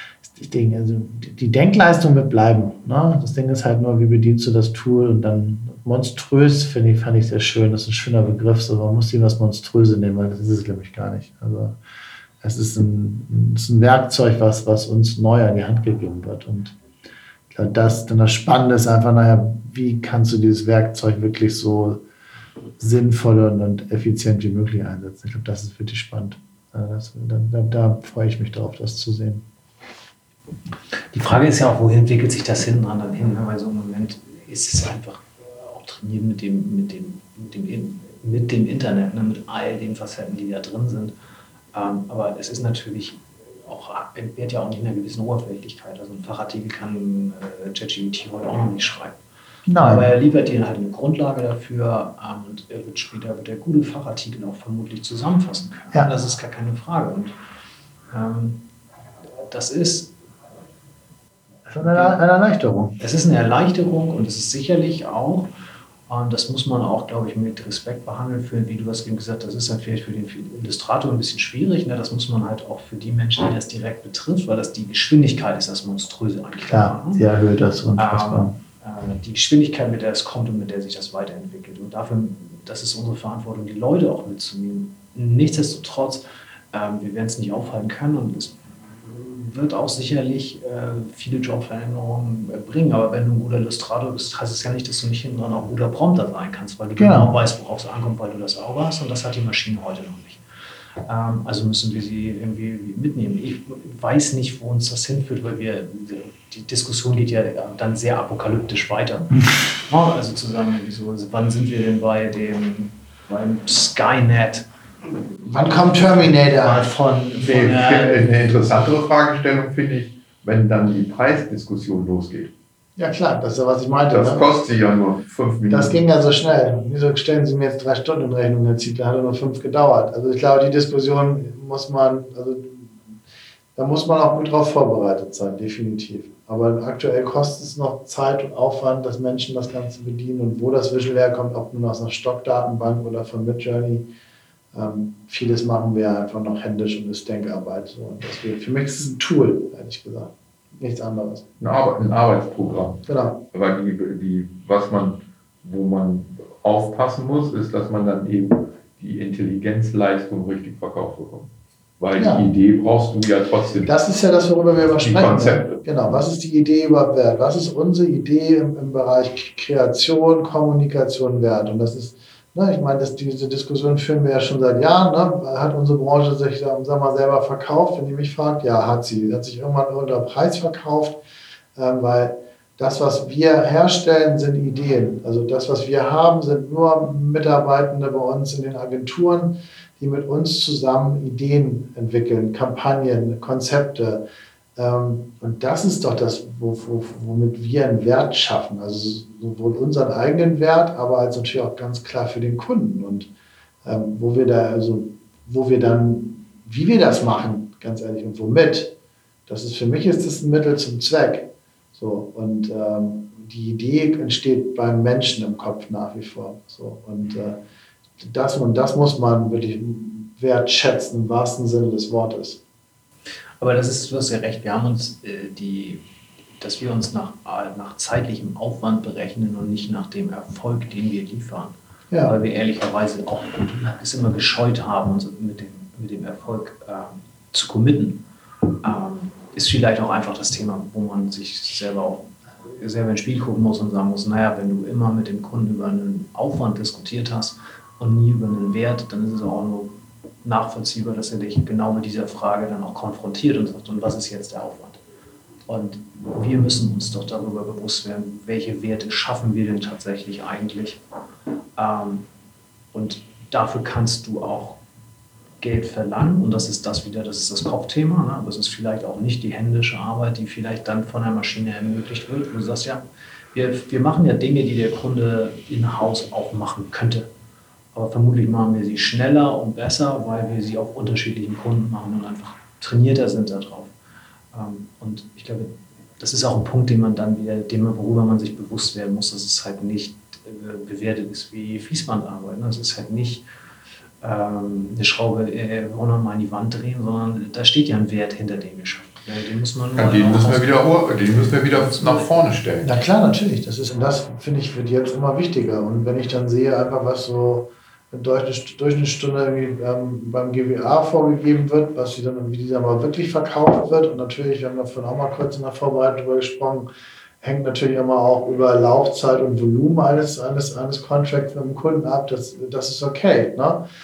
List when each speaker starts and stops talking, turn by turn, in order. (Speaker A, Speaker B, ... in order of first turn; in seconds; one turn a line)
Speaker A: 0.2-11.8
Speaker A: 12.4-16.8
Speaker A: 17.5-22.0
Speaker A: 22.8-29.4
Speaker B: 31.1-41.1
Speaker B: 41.7-49.2
Speaker A: 49.7-50.1
Speaker B: 49.8-57.4
Speaker B: 58.1-58.6
Speaker B: 59.4-60.1
Speaker A: 61.7-63.0
Speaker B: 61.8-62.2
Speaker B: 63.0-65.5
Speaker B: 66.1-77.2
Speaker A: 76.7-78.6
Speaker B: 78.0-100.4
Speaker A: 97.0-97.3
Speaker B: 101.0-114.7
Speaker A: 115.4-116.9
Speaker B: 116.5-118.3
Speaker C: 117.4-122.5
Speaker A: 123.0-124.5
Speaker C: 124.1-126.1
Speaker A: 125.7-133.0
Speaker A: 133.8-144.1
Speaker A: 144.7-151.4
Speaker C: 151.6-163.9
Speaker A: 153.1-153.4
Speaker A: 162.2-162.5
Speaker A: 163.8-181.2
Speaker C: 164.9-165.8
Speaker A: 181.8-194.2
Speaker A: 194.8-203.3
Speaker A: 203.8-208.9
Speaker A: 209.5-217.6
Speaker A: 218.2-222.6
Speaker B: 223.6-226.0
Speaker B: 226.6-238.2
Speaker B: 238.8-255.0
Speaker B: 255.7-261.0
Speaker B: 261.8-262.3
Speaker B: 262.9-264.8
Speaker B: 265.6-277.3
Speaker B: 277.9-283.9
Speaker B: 284.5-293.4
Speaker B: 294.2-300.9
Speaker C: 299.9-302.9
Speaker B: 301.5-302.3
Speaker A: 302.8-316.9
Speaker A: 317.4-323.8